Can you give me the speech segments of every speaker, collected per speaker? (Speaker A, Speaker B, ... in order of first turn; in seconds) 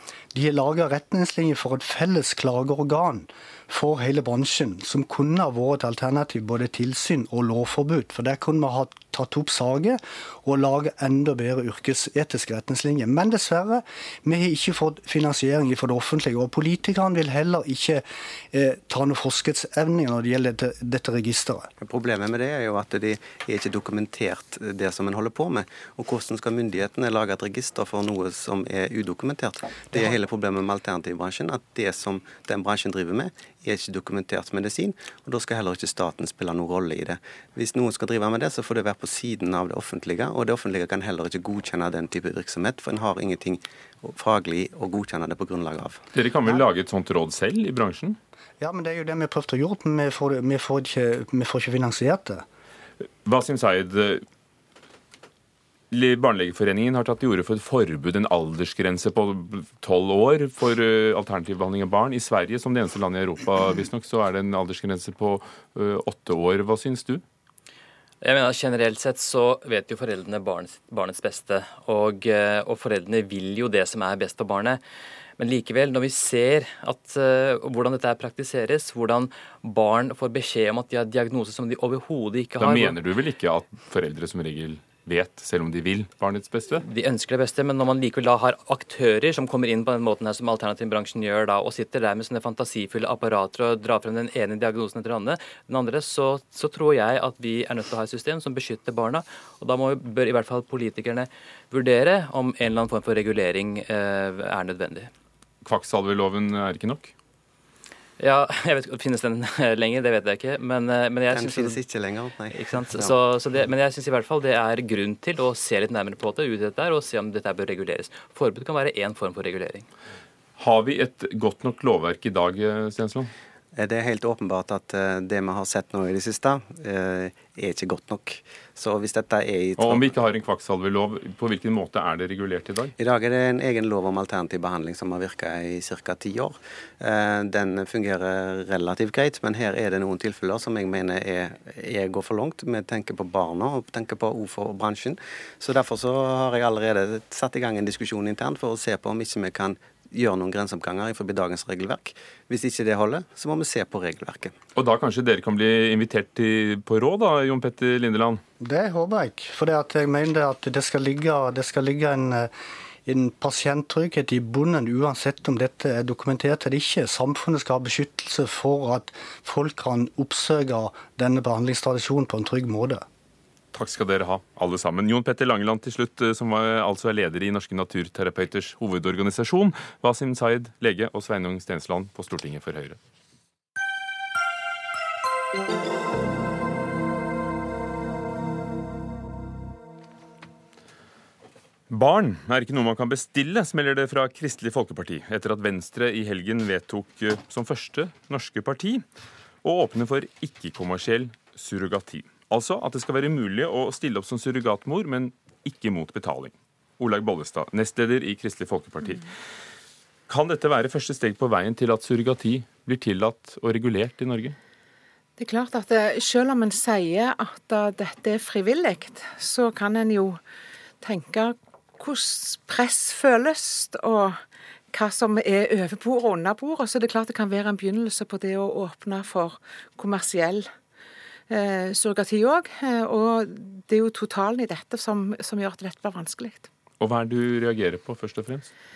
Speaker A: 0.3-21.7, 48.6-52.4, 158.6-162.5, 163.0-173.1
Speaker B: 21.8-46.0, 111.3-113.1, 123.8-130.1, 133.0-154.5
Speaker C: 46.1-48.2, 53.2-54.2, 55.9-67.2, 82.6-86.8, 105.6-107.1, 120.6-123.3, 129.8-132.9, 154.8-158.4, 173.7-183.0, 191.9-199.0, 199.6-209.3, 210.3-214.5, 237.0-238.7
Speaker D: 68.2-74.8, 75.4-83.0, 86.8-105.1, 108.2-111.8, 112.5-119.9
Speaker E: 215.4-220.4, 221.0-224.4, 224.9-230.7, 231.5-236.7